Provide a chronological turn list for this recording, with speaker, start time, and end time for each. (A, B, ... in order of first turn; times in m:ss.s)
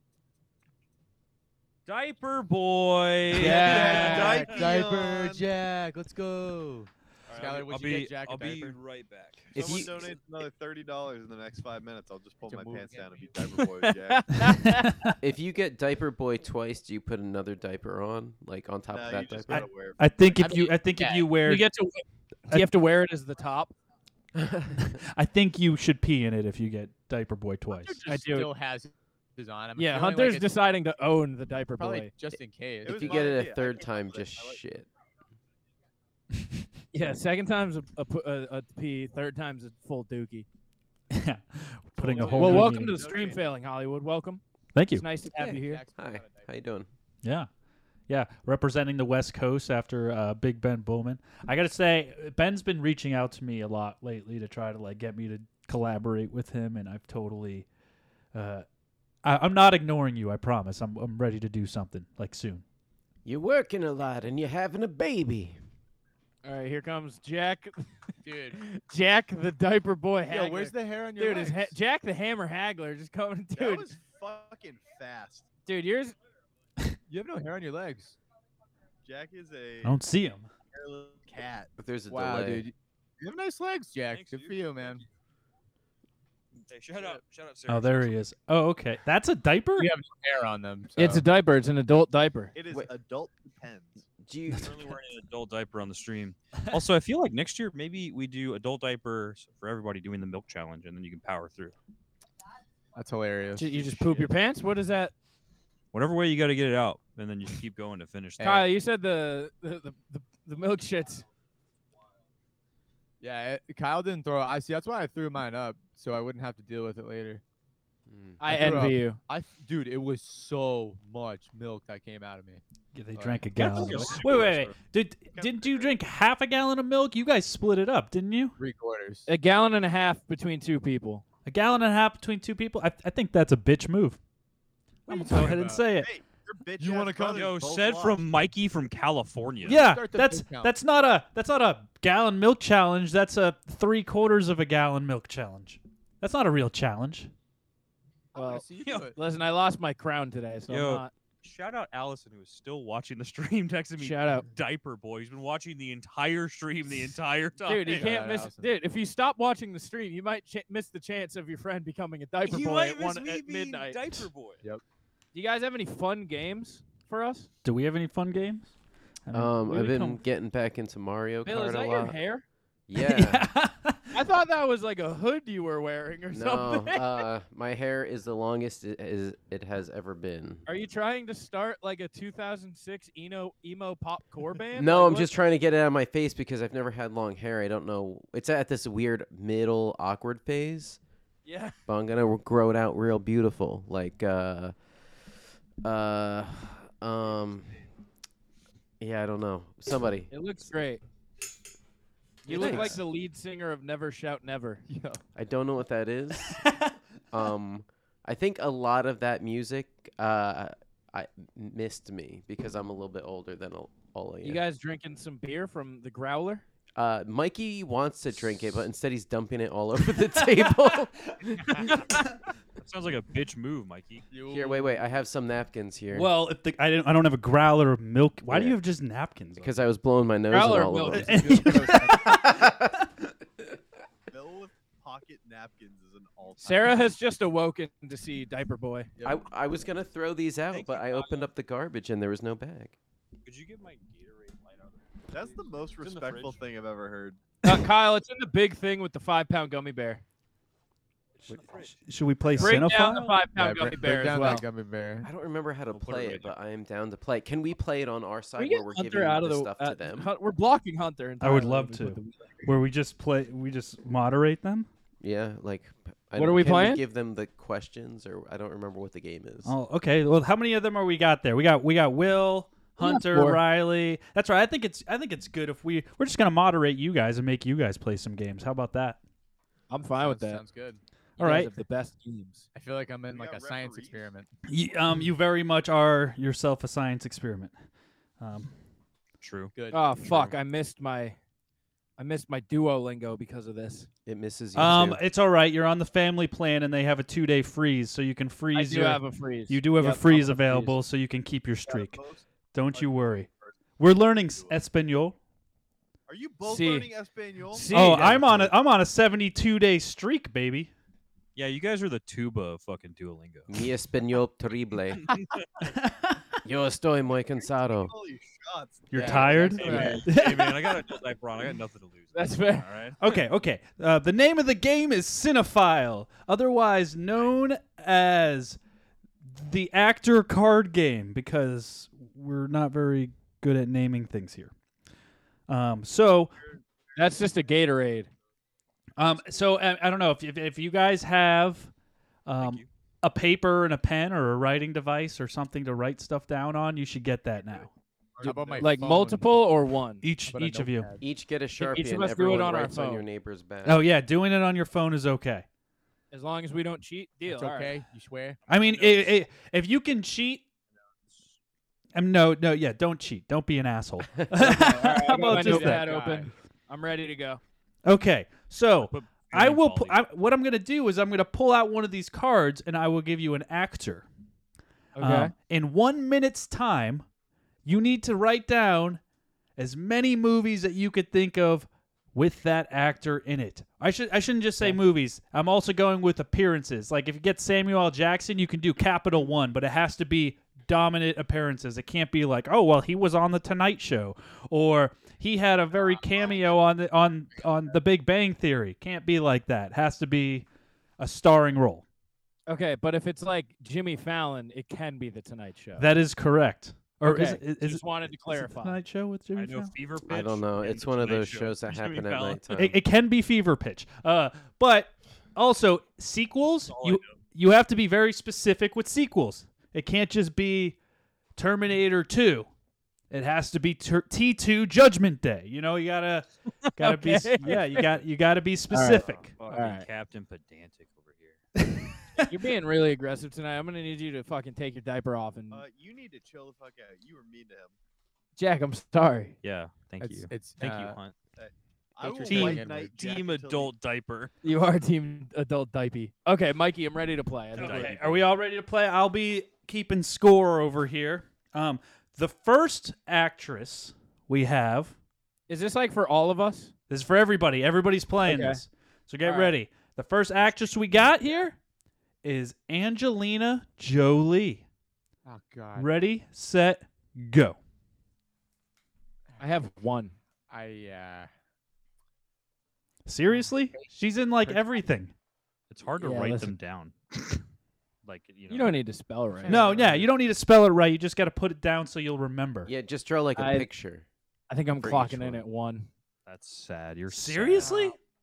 0:01.8-0:04.7 A
0:03.3-0:08.8 B
0:03.4-0:05.5 C
0:07.3-0:10.1 A
0:09.5-0:14.4 C
0:09.5-0:10.1 D
0:12.4-0:13.3 B
0:13.5-0:15.0 E
0:14.6-0:15.1 F
0:15.2-0:19.6 D
0:18.9-0:20.0 C
0:19.5-0:21.7 F
0:20.3-0:21.3 B
0:21.4-0:23.7 E
0:24.3-0:24.8 D
0:24.9-0:28.0 F
0:27.7-0:30.6 B
0:28.0-0:28.5 E
0:29.8-0:32.1 E
0:31.8-0:33.5 B
0:32.8-0:34.8 C
0:32.8-0:34.9 D
0:36.9-0:40.4 E
0:41.1-0:43.0 F
0:42.0-0:43.4 C
0:42.1-0:45.8 E
0:42.4-0:42.9 B
0:44.7-0:45.0 F
0:45.3-0:46.5 B
0:46.0-0:46.9 D
0:47.2-0:47.5 F
0:48.1-0:57.6 F
0:58.3-0:58.6 F
0:59.2-1:02.6 F
1:03.2-1:05.6 D
1:06.4-1:07.9 E
1:08.2-1:08.6 B
1:08.5-1:13.9 E
1:10.3-1:11.8 B
1:13.5-1:15.4 C
1:15.6-1:16.2 E
1:17.1-1:18.2 B
1:19.0-1:20.0 C
1:19.8-1:20.5 F
1:20.7-1:21.7 C
1:21.8-1:22.6 D
1:22.1-1:25.0 B
1:24.1-1:25.0 A
1:26.7-1:28.1 A
1:27.7-1:29.9 F
1:29.8-1:31.2 B
1:31.0-1:32.5 E
1:32.5-1:34.0 C
1:34.2-1:34.7 D
1:34.6-1:41.7 A
1:42.9-1:44.3 B
1:43.6-1:45.1 E
1:45.9-1:48.6 A
1:48.4-1:51.2 E
1:48.4-1:48.6 B
1:53.2-1:57.4 B
1:58.1-1:58.4 D
1:58.4-1:59.2 E
1:58.4-2:02.6 B
2:02.9-2:08.6 F
2:03.1-2:04.7 B
2:03.6-2:04.7 A
2:05.3-2:06.0 C
2:08.6-2:09.3 B
2:09.2-2:11.2 E
2:11.4-2:14.2 F
2:15.1-2:15.8 B
2:15.1-2:16.1 F
2:16.0-2:18.3 C
2:16.8-2:17.6 B
2:17.3-2:19.8 A
2:19.6-2:20.7 B
2:19.6-2:27.3 F
2:28.3-2:29.2 B
2:28.3-2:31.1 E
2:30.7-2:38.1 A
2:34.0-2:34.5 E
2:37.6-2:44.3 E
2:37.8-2:38.7 B
2:42.4-2:44.6 A
2:45.3-2:47.5 E
2:47.6-2:48.7 F
2:49.2-2:50.2 F
2:49.3-2:52.2 D
2:51.4-2:52.4 E
2:52.9-2:53.5 D
2:53.0-2:54.1 F
2:54.1-2:57.2 E
2:56.3-3:00.6 D
3:00.6-3:05.3 E
3:04.8-3:11.0 D
3:11.4-3:11.7 E
3:11.8-3:14.7 D
3:15.8-3:17.8 D
3:19.0-3:20.3 D
3:20.3-3:21.0 E
3:22.4-3:24.8 E
3:22.5-3:23.0 D
3:22.5-3:23.0 B
3:24.9-3:25.2 B
3:25.3-3:26.6 D
3:27.3-3:34.6 D
3:34.4-3:36.6 E
3:37.0-3:41.9 D
3:42.8-3:44.2 A
3:44.3-3:45.0 B
3:44.5-3:46.3 D
3:46.1-3:49.8 F
3:48.5-3:48.8 D
3:49.6-3:52.9 D
3:50.5-3:51.5 E
3:51.1-3:52.8 F
3:51.3-3:52.1 B
3:54.3-3:57.1 C
3:56.6-3:59.1 E
3:59.2-4:02.9 D
4:00.7-4:01.5 A
4:03.4-4:06.6 A
4:05.3-4:07.4 C
4:07.6-4:10.2 E
4:11.5-4:11.9 A
4:11.5-4:13.4 F
4:12.6-4:14.6 E
4:13.5-4:15.3 B
4:15.2-4:20.3 D
4:15.9-4:16.5 A
4:18.6-4:22.7 E
4:21.4-4:24.9 F
4:25.2-4:29.7 D
4:26.3-4:27.0 E
4:29.6-4:39.2 F
4:33.0-4:33.6 E
4:39.9-4:40.6 E
4:40.2-4:41.0 B
4:41.4-4:42.7 E
4:41.4-4:41.7 F
4:42.7-4:44.5 B
4:43.3-4:44.3 C
4:44.7-4:47.7 F
4:48.4-4:48.7 F
4:49.4-4:49.7 A
4:49.7-4:50.4 B
4:49.9-4:51.4 E
4:50.2-4:50.5 D
4:52.2-4:54.1 E
4:54.2-4:55.2 D
4:54.7-5:02.2 F
4:58.7-5:01.0 E
5:01.8-5:04.7 C
5:02.7-5:05.4 F
5:06.3-5:08.1 C
5:06.6-5:07.1 E
5:07.7-5:08.7 E
5:07.9-5:10.9 F
5:11.6-5:13.9 A
5:13.7-5:15.3 D
5:15.8-5:16.4 F
5:16.6-5:18.1 D
5:17.8-5:19.5 C
5:19.1-5:20.9 F
5:19.1-5:19.8 D
5:19.1-5:20.4 B
5:19.7-5:23.3 A
5:19.8-5:20.2 E
5:22.3-5:22.9 E
5:23.2-5:28.8 F
5:29.5-5:34.7 F
5:35.7-5:36.6 F
5:37.1-5:38.3 E
5:39.2-5:41.9 F
5:42.4-5:47.9 F
5:42.6-5:42.9 A
5:48.4-5:49.2 C
5:48.4-5:49.7 B
5:48.4-5:50.4 E
5:50.2-5:51.1 F
5:50.4-5:51.2 B
5:51.2-5:54.0 D
5:51.8-5:53.2 E
5:53.8-5:55.6 F
5:56.3-5:58.0 E
5:57.4-5:58.6 B
5:58.7-5:59.4 A
5:58.7-6:00.6 F
6:01.2-6:01.6 A
6:02.1-6:06.1 F
6:04.6-6:06.5 B
6:04.6-6:07.6 E
6:08.0-6:14.2 F
6:09.0-6:10.2 A
6:15.1-6:15.5 E
6:15.2-6:17.2 F
6:17.8-6:19.2 F
6:19.8-6:40.7 F
6:35.9-6:36.8 B
6:37.5-6:38.0 B
6:41.2-6:42.0 F
6:42.7-6:46.1 E
6:46.0-6:49.9 F
6:47.2-6:49.0 E
6:49.5-6:52.7 A
6:50.3-6:53.0 D
6:52.7-7:01.0 F
6:56.9-6:57.4 A
7:01.6-7:02.7 F
7:03.3-7:09.6 F
7:07.0-7:08.2 E
7:08.9-7:10.0 E
7:09.4-7:11.6 A
7:11.8-7:12.4 F
7:12.5-7:15.8 E
7:15.7-7:17.9 C
7:18.6-7:19.6 E
7:19.6-7:21.3 A
7:20.2-7:21.2 B
7:21.6-7:23.9 C
7:22.2-7:23.2 B
7:22.4-7:24.5 A
7:24.6-7:28.4 E
7:27.7-7:35.1 F
7:27.8-7:28.2 A
7:35.7-7:36.9 E
7:37.1-7:41.8 F
7:38.4-7:38.8 E
7:39.4-7:39.7 E
7:42.4-7:44.8 F
7:45.4-7:46.1 B
7:45.9-7:47.8 F
7:49.6-7:50.3 E
7:50.7-7:51.5 B
7:53.2-7:55.3 F
7:53.5-7:54.9 B
7:55.9-7:57.6 A
7:56.2-7:56.7 E
7:58.2-7:59.0 A
7:58.7-7:59.8 E
7:59.6-8:00.3 B
7:59.7-8:02.9 F
8:02.8-8:04.3 D
8:03.6-8:03.9 E
8:04.7-8:06.1 E
8:05.0-8:05.6 D
8:06.4-8:07.9 A
8:07.3-8:08.2 F
8:07.8-8:08.1 B